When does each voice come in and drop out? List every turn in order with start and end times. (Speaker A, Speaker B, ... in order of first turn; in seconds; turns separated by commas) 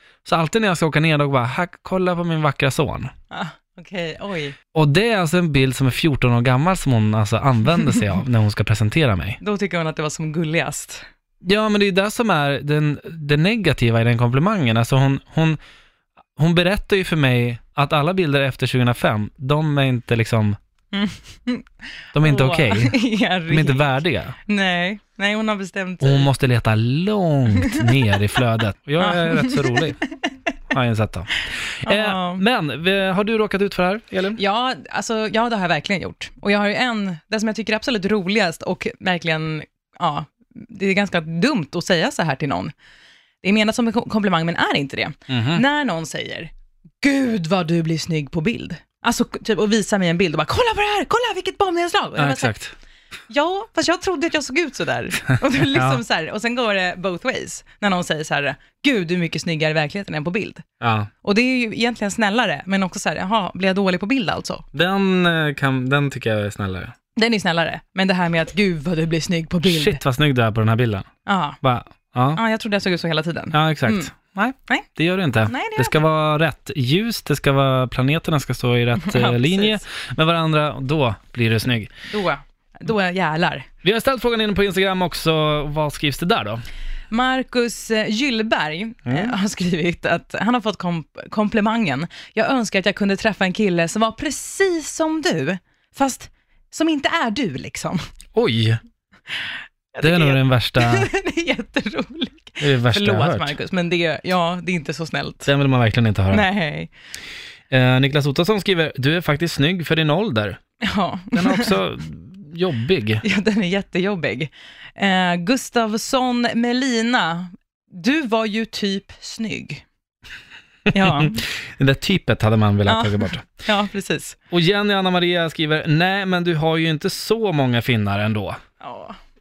Speaker A: 0.2-3.1, Speaker B: 3.3-4.5, Speaker A: 4.7-9.4, Speaker B: 9.4-11.0, Speaker A: 11.4-15.6, Speaker A: 16.4-20.6, Speaker B: 20.9-21.7, Speaker A: 22.1-23.0, Speaker B: 22.2-23.9, Speaker A: 23.5-24.4, Speaker B: 24.5-26.3, Speaker A: 26.0-30.0, Speaker B: 27.6-27.9, Speaker B: 29.0-30.3, Speaker A: 30.7-34.4, Speaker B: 31.8-32.4, Speaker B: 34.4-42.7, Speaker B: 43.4-46.5, Speaker A: 45.3-45.6, Speaker B: 47.0-52.5, Speaker A: 52.2-52.7, Speaker B: 53.3-60.6, Speaker A: 55.6-56.0, Speaker A: 60.8-61.1, Speaker B: 61.2-64.6, Speaker A: 64.7-66.9, Speaker B: 67.2-70.0, Speaker A: 69.6-71.1, Speaker B: 71.2-71.6, Speaker A: 71.6-72.4, Speaker B: 72.3-74.1, Speaker A: 73.5-81.9, Speaker B: 75.5-76.0, Speaker B: 79.0-79.8, Speaker B: 82.1-83.7, Speaker A: 83.8-86.6, Speaker B: 87.1-98.0, Speaker A: 98.3-98.8, Speaker B: 99.9-105.5, Speaker A: 100.0-101.1, Speaker A: 102.6-103.5, Speaker A: 105.5-106.4, Speaker B: 106.3-106.9, Speaker A: 107.7-110.6, Speaker B: 110.8-111.7, Speaker A: 111.3-113.2, Speaker B: 113.2-119.8, Speaker A: 120.9-123.5, Speaker B: 120.9-121.4, Speaker B: 122.8-124.4, Speaker A: 124.5-128.6, Speaker B: 128.8-129.2